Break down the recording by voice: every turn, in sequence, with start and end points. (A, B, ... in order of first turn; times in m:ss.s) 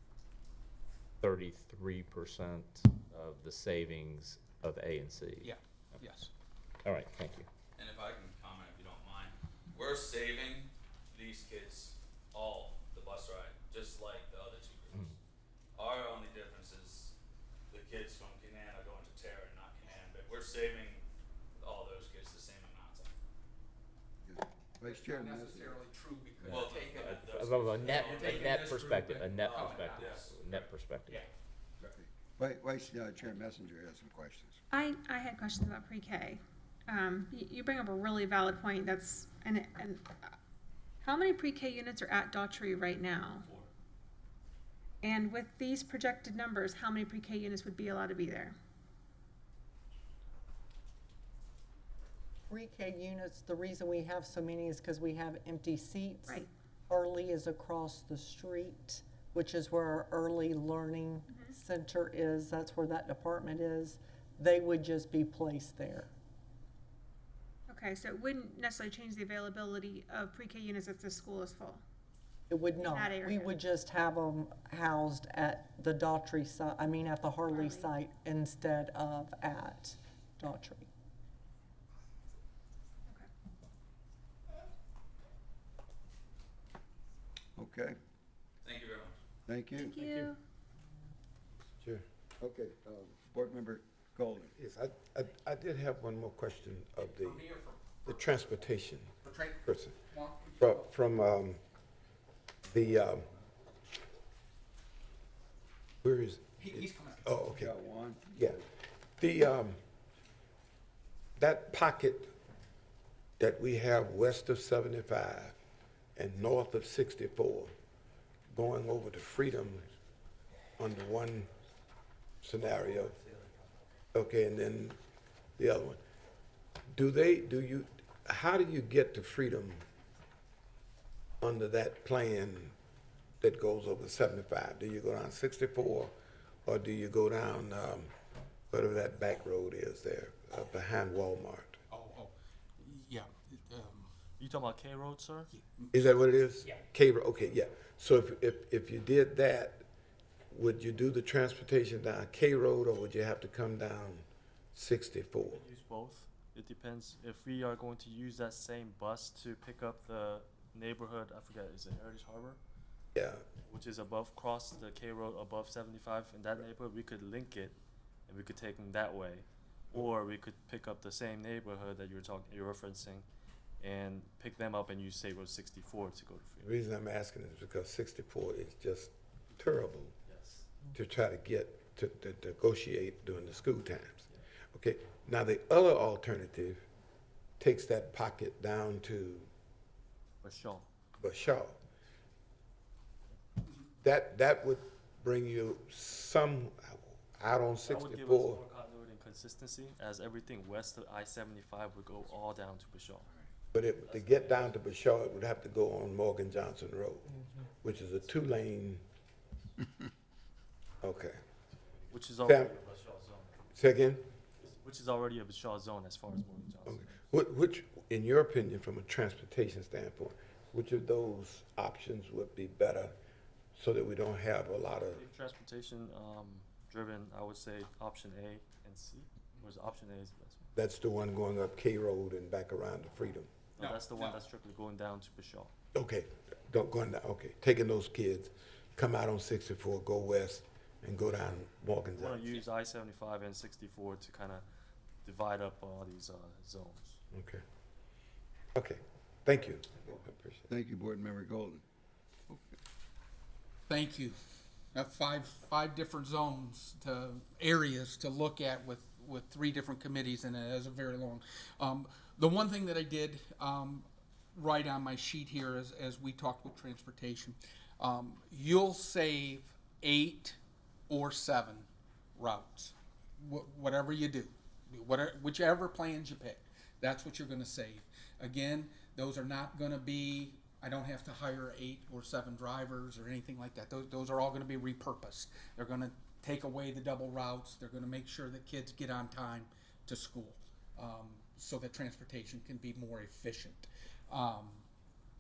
0:01.2-0:05.5 A
0:05.4-0:06.3 B
0:06.8-0:07.5 A
0:07.8-0:15.1 C
0:15.7-0:17.1 C
0:17.7-0:21.0 C
0:21.6-0:23.1 C
0:24.2-0:25.8 D
0:24.8-0:27.1 B
0:26.4-0:31.2 A
0:26.4-0:28.8 C
0:27.9-0:30.3 B
0:29.3-0:30.7 C
0:31.8-0:34.6 D
0:34.7-0:40.3 E
0:41.0-0:43.5 E
0:43.4-0:43.7 F
0:45.0-0:48.6 E
0:52.5-1:06.1 G
1:01.3-1:01.6 E
1:07.7-1:11.8 E
1:12.5-1:20.9 G
1:12.8-1:13.5 E
1:17.5-1:17.9 E
1:27.6-1:28.0 D
1:28.6-1:29.2 C
1:29.5-1:30.3 D
1:29.8-1:30.4 E
1:32.4-1:34.5 D
1:34.6-1:37.4 H
1:37.0-1:38.2 B
1:38.0-1:39.1 H
1:39.2-1:40.9 B
1:39.6-1:40.0 H
1:40.6-1:41.6 H
1:42.7-1:43.3 H
1:46.0-1:47.7 H
1:46.6-1:47.6 B
1:47.5-1:48.6 D
1:48.3-1:48.6 H
1:49.2-1:49.8 H
1:51.4-1:52.3 H
1:53.4-1:55.6 H
1:56.2-1:57.7 H
1:58.5-1:59.8 H
2:00.8-2:01.5 H
2:02.4-2:03.1 H
2:04.1-2:05.0 H
2:05.6-2:06.0 H
2:06.9-2:09.8 H
2:11.4-2:12.7 H
2:13.4-2:16.1 H
2:16.6-2:18.1 H
2:18.7-2:21.8 H
2:21.9-2:24.1 B
2:24.4-2:25.5 F
2:25.5-2:26.0 B
2:25.9-2:29.8 H
2:30.5-2:34.2 H
2:34.8-2:35.6 H
2:35.5-2:42.6 F
2:43.2-2:43.4 H
2:43.7-2:47.8 F
2:48.3-2:53.2 F
2:53.8-2:56.7 F
2:56.6-3:00.1 H
3:00.3-3:00.7 F
3:00.9-3:06.8 H
3:07.6-3:09.5 H
3:10.4-3:10.8 F
3:11.2-3:11.8 H
3:14.0-3:18.6 H
3:17.8-3:23.3 F
3:23.7-3:29.0 H
3:24.0-3:24.8 F
3:31.0-3:31.4 H
3:32.1-3:33.6 F
3:32.4-3:32.7 H
3:33.7-3:34.2 H
3:34.6-3:37.2 F
3:36.8-3:43.2 H
3:43.8-3:45.2 H
3:45.0-3:50.7 F
3:50.8-3:53.5 H
3:53.8-3:55.7 F
3:53.8-3:54.4 B
3:55.9-4:02.5 H
4:02.1-4:04.6 F
4:05.2-4:07.2 F
4:07.3-4:07.6 H
4:08.8-4:10.7 H
4:10.7-4:11.8 D
4:12.5-4:12.8 D
4:13.9-4:14.4 B
4:14.9-4:54.8 B